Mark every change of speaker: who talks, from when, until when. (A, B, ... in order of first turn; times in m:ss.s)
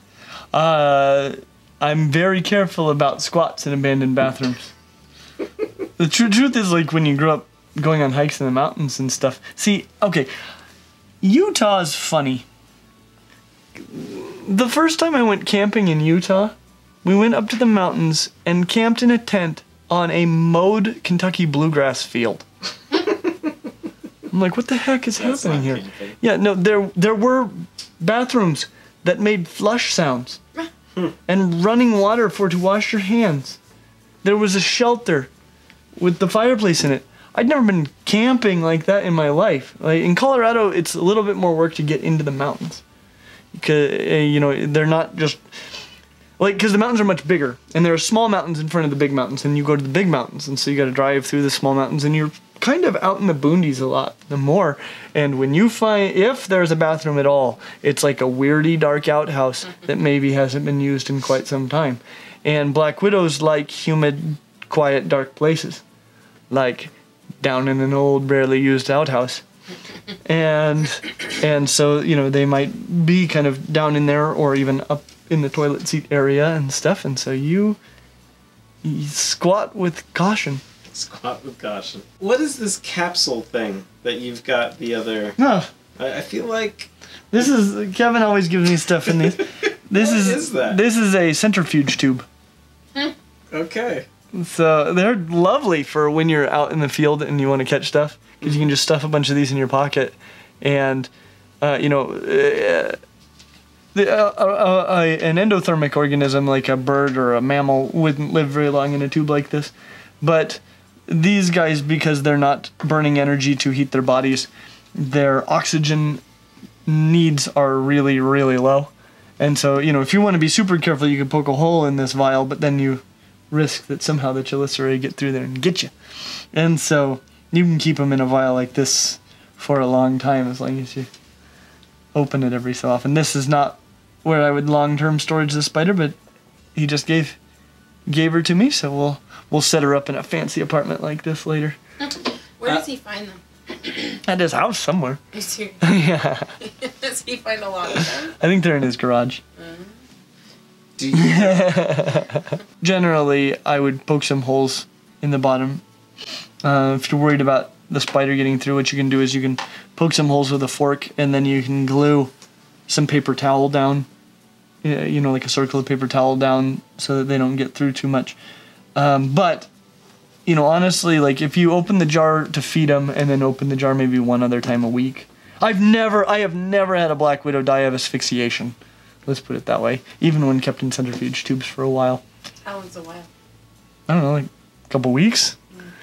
0:00.5-0:04.7 A
0:06.0-0:10.3 A
0:11.2-0:12.4 A
0:13.8-0:22.4 A
0:24.3-0:30.4 A
0:25.2-0:26.2 B
0:31.3-0:33.6 A
0:34.2-0:35.3 A
0:36.0-0:42.8 A
0:43.5-0:45.4 A
0:46.4-1:05.8 A
1:06.5-1:09.4 A
1:10.2-1:17.8 A
1:18.8-1:20.6 A
1:20.8-1:25.4 B
1:25.4-1:25.7 A
1:26.0-1:26.9 B
1:27.3-1:32.3 A
1:29.4-1:30.8 B
1:33.5-1:34.0 B
1:34.3-1:41.1 A
1:38.4-1:38.7 B
1:41.6-1:43.0 A
1:43.9-1:56.2 A
1:56.9-2:05.9 A
2:06.5-2:11.1 A
2:12.1-2:16.2 A
2:16.7-2:17.4 A
2:18.1-2:21.8 A
2:22.6-2:24.2 C
2:24.2-2:25.2 A
2:25.3-2:25.9 C
2:25.8-2:26.5 A
2:26.6-2:28.4 C
2:28.3-2:29.4 A
2:29.6-2:29.9 C
2:31.0-2:31.7 B
2:31.1-2:35.8 A
2:36.6-2:42.3 A
2:42.9-2:44.1 A
2:44.8-2:48.4 A
2:48.9-2:49.7 A
2:50.4-2:58.7 A
2:59.2-3:02.2 A
3:02.6-3:03.3 C
3:04.1-3:05.6 A